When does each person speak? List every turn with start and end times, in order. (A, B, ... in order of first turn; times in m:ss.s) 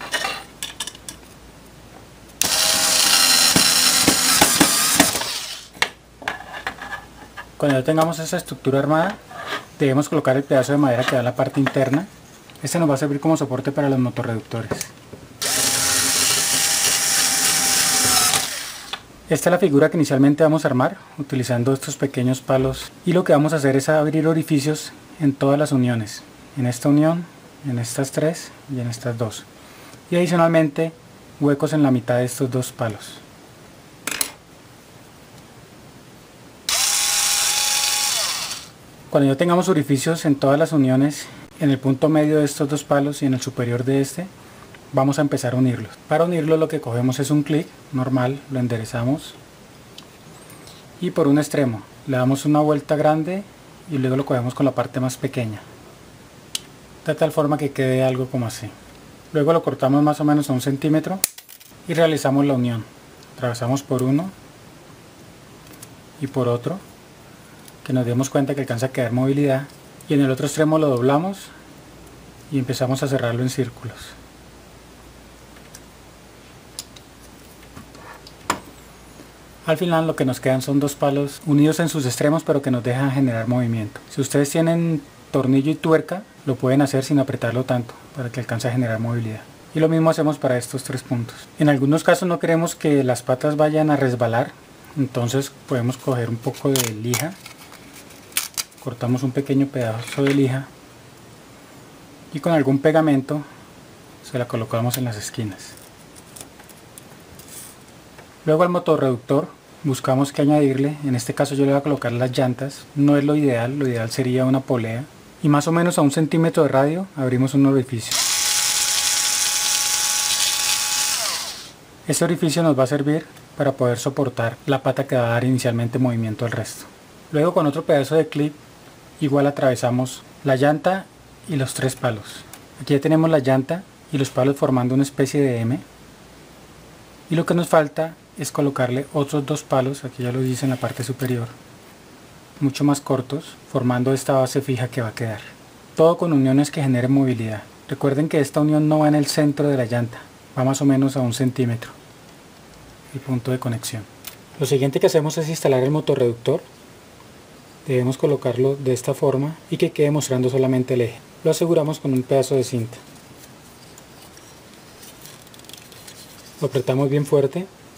0:07.6-0:09.2 A
0:09.8-0:12.1 A
0:12.6-0:14.9 A
0:19.3-0:29.5 A
0:30.1-0:33.2 A
0:39.1-0:44.3 A
0:44.9-0:49.4 A
0:51.0-0:55.6 A
0:57.0-0:58.7 A
0:59.3-1:01.2 A
1:01.8-1:04.3 A
1:06.2-1:06.8 A
1:07.8-1:11.5 A
1:12.5-1:14.2 A
1:19.6-1:37.4 A
1:38.8-1:40.7 A
1:42.3-1:43.4 A
1:44.2-1:45.8 A
1:48.4-1:58.2 A
2:02.1-2:08.6 A
2:09.2-2:15.8 A
2:17.3-2:21.6 A
2:22.6-2:31.9 A
2:33.1-2:36.6 A
2:37.9-2:43.0 A
2:46.6-2:47.7 A